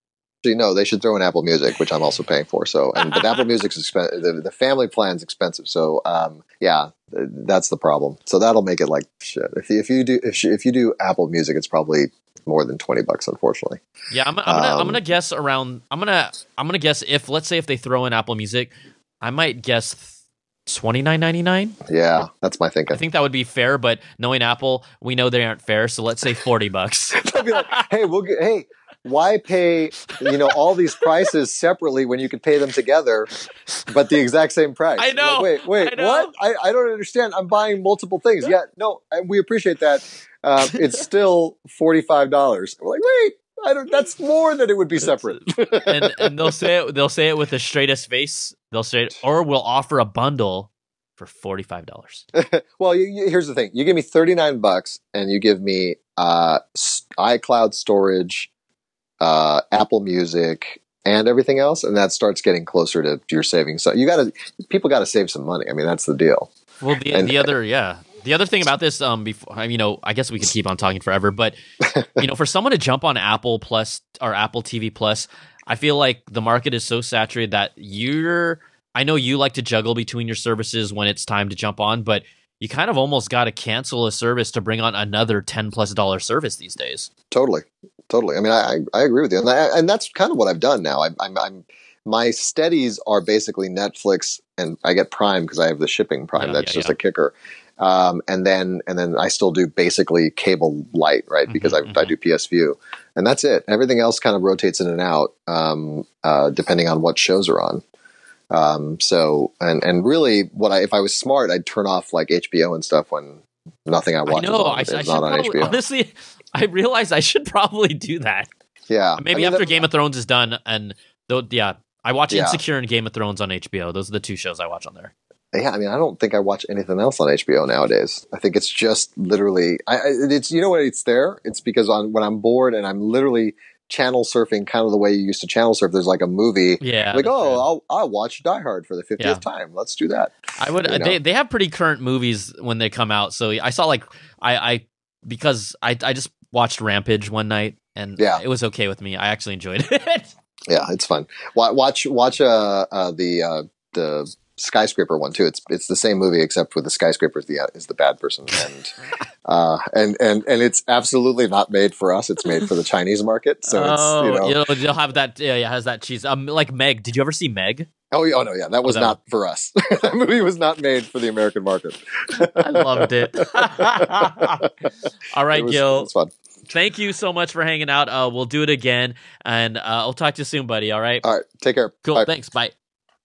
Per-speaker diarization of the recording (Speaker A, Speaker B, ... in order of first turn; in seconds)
Speaker A: 0.4-13.8, 14.5-15.0, 21.9-23.0, 27.1-33.3, 33.9-46.5, 52.4-58.5, 59.2-66.5, 67.1-67.5, 71.8-72.1, 87.3-107.8, 108.5-115.8, 118.9-119.8, 122.3-122.6, 125.5-141.2, 150.7-158.9, 159.4-164.6, 168.1-174.7, 175.5-176.3, 181.2-182.3
Speaker B: 14.1-21.8, 22.9-27.9, 35.0-36.3, 45.8-52.2, 66.8-71.6, 72.2-87.1, 96.4-97.0, 101.5-102.1, 114.3-118.5, 119.2-125.1, 136.8-137.6, 140.6-150.3, 163.7-167.9, 168.9-169.2, 172.3-174.7, 175.3-176.1, 176.7-181.2, 182.1-182.7